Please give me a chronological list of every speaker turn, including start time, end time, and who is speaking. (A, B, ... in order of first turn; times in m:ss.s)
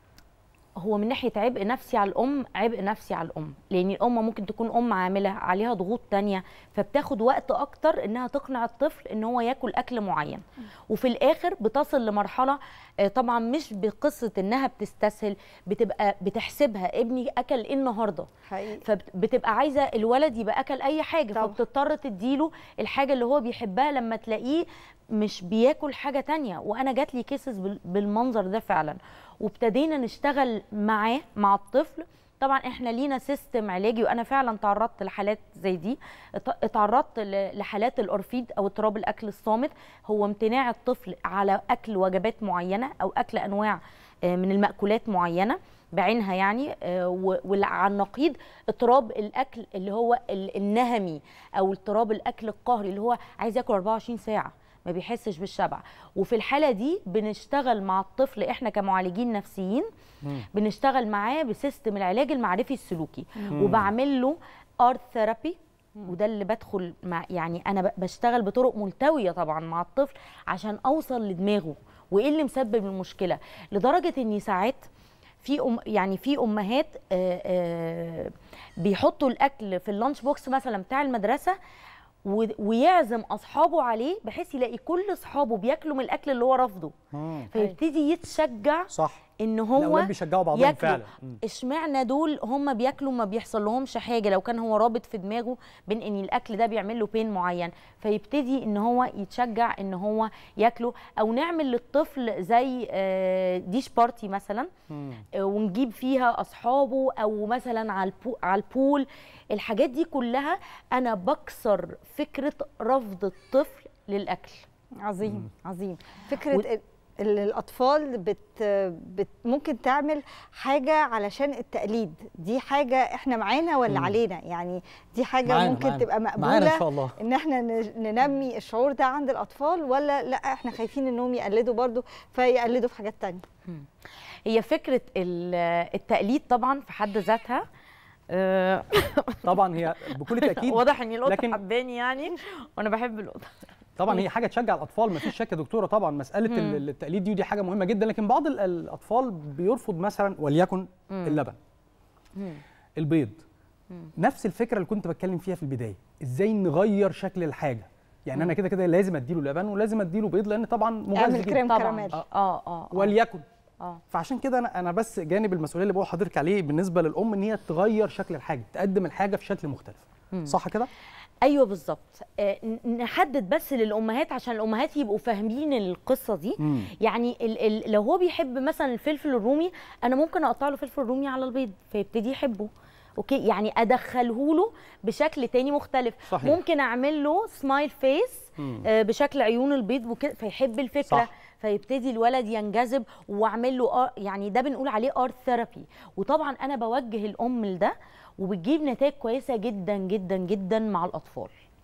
0:00.8-0:18.3 A
0:18.5-0:18.8 B
0:18.8-0:59.9 A
1:00.5-1:14.8 A
1:03.5-1:03.9 C
1:15.4-1:21.6 A
1:22.2-1:26.9 A
1:27.1-1:27.7 C
1:27.5-1:44.7 A
1:28.9-1:29.2 C
1:29.8-1:31.4 C
1:44.9-1:45.2 C
1:45.4-1:54.6 A
1:55.0-2:13.4 B
2:03.9-2:04.2 C
2:05.4-2:07.2 C
2:14.4-2:17.6 A
2:18.3-2:24.3 A
2:19.4-2:21.6 C
2:24.0-2:31.6 C
2:26.4-2:26.8 A
2:31.1-2:31.4 A
2:32.3-2:32.6 A
2:33.0-2:33.4 C
2:34.2-2:42.2 C
2:41.1-2:42.2 B
2:41.6-2:43.1 A
2:42.9-2:43.4 C
2:44.1-2:50.9 C
2:50.3-2:50.6 A
2:51.4-3:21.5 A
2:56.6-2:56.9 C
3:06.3-3:06.6 C
3:08.6-3:08.8 C